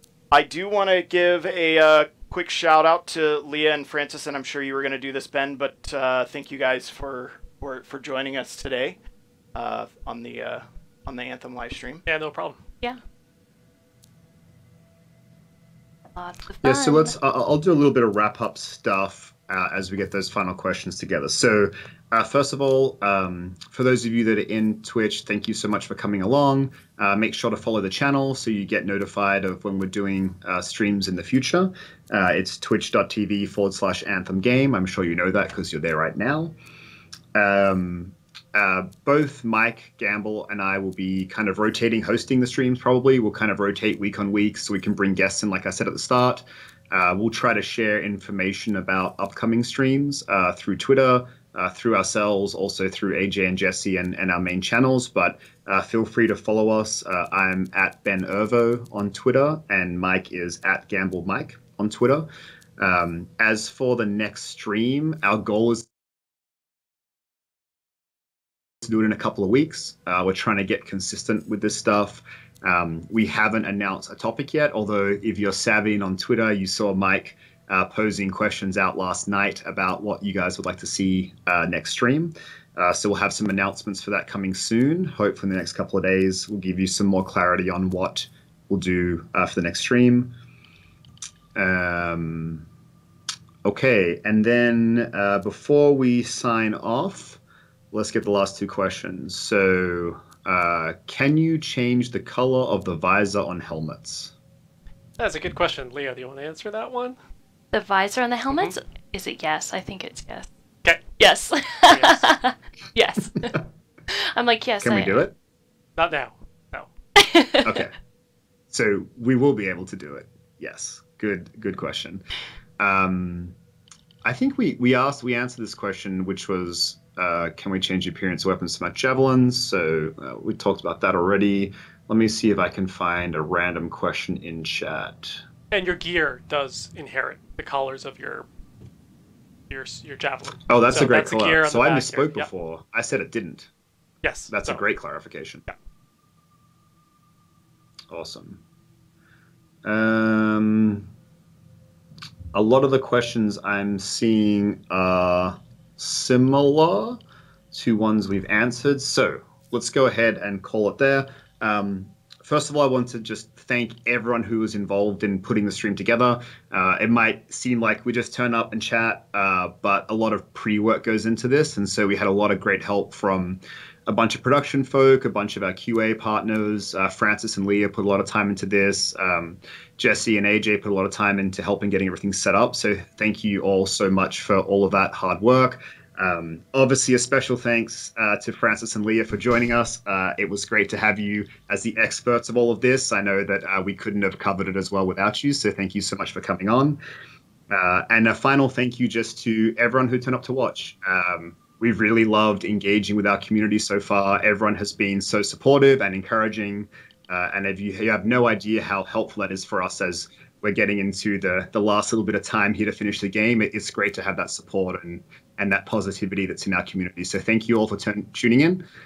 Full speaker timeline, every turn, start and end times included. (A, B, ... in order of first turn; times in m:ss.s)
0:00.3-0:09.0 A
0:09.6-0:12.0 A
0:12.0-0:12.6 B
0:16.2-0:17.2 C
0:16.6-0:36.5 D
0:37.3-1:02.3 D
1:02.8-1:05.9 D
1:08.8-1:30.3 D
1:31.6-1:32.7 D
1:33.6-1:37.4 D
1:37.9-1:44.3 D
1:45.2-1:47.2 B
1:47.7-1:50.5 C
1:51.2-1:53.6 C
1:51.9-1:52.3 B
1:54.1-1:55.2 C
1:54.8-1:55.4 D
1:56.0-1:56.9 B
1:57.2-1:57.7 C
1:57.6-1:57.9 D
1:58.7-2:02.2 D
2:02.8-2:03.6 D
2:04.2-2:15.4 D
2:15.7-2:18.5 B
2:19.7-2:22.5 B
2:20.7-2:23.7 D
2:24.2-2:24.8 B
2:24.5-2:25.6 D
2:28.1-2:28.6 D
2:29.8-2:31.1 D
2:32.5-2:37.2 D
2:37.7-3:17.0 D
3:17.7-3:38.8 D